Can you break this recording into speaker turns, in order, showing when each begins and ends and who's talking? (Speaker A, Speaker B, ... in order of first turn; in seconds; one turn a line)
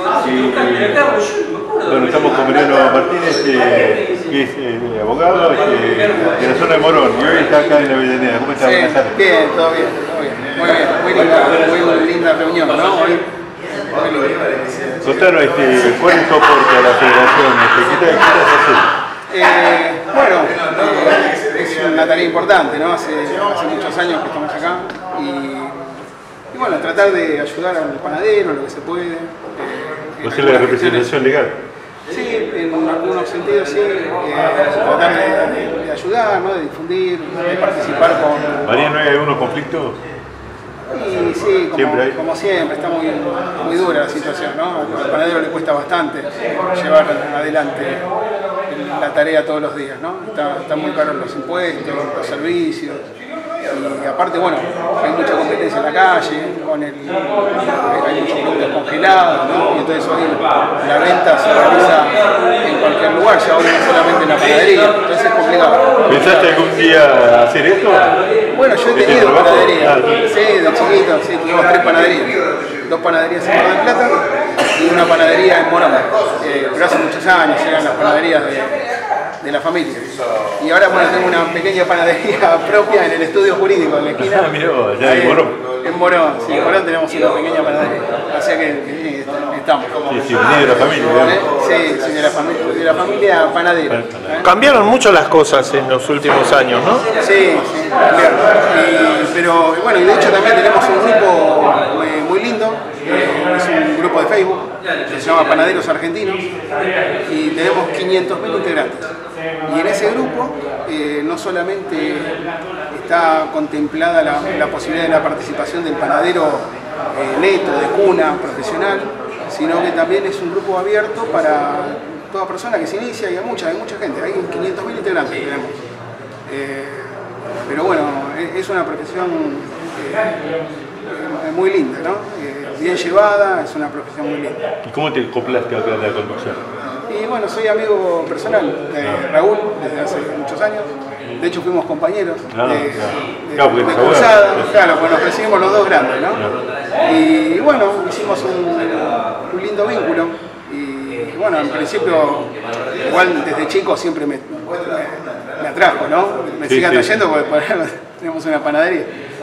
Speaker A: 0.2-1.0
Speaker A: 1.9-9.2
Speaker B: 8.6-13.2
Speaker B: 13.9-15.0
Speaker A: 15.0-18.9
Speaker B: 19.3-25.9
Speaker B: 26.5-31.2
Speaker A: 30.2-31.6
Speaker B: 32.1-38.7
Speaker A: 38.6-40.0
Speaker B: 40.9-48.1
Speaker A: 41.7-42.1
Speaker B: 48.7-53.0
Speaker B: 53.7-66.5
Speaker A: 66.1-68.1
Speaker B: 68.5-74.2
Speaker A: 68.9-70.1
Speaker B: 74.7-78.7
Speaker B: 79.4-80.0
Speaker B: 80.6-90.0
Speaker A: 84.2-85.5
Speaker A: 90.1-91.4
Speaker B: 91.0-94.5
Speaker A: 93.9-94.8
Speaker C: 94.4-97.0
Speaker B: 97.2-106.5
Speaker B: 107.3-109.1
Speaker B: 109.7-112.3
Speaker B: 112.9-125.7
Speaker B: 126.5-130.4
Speaker B: 131.1-134.6
Speaker A: 134.8-136.6
Speaker B: 137.1-146.4
Speaker A: 142.5-144.7
Speaker B: 147.0-152.5
Speaker B: 153.0-159.1
Speaker A: 156.7-157.2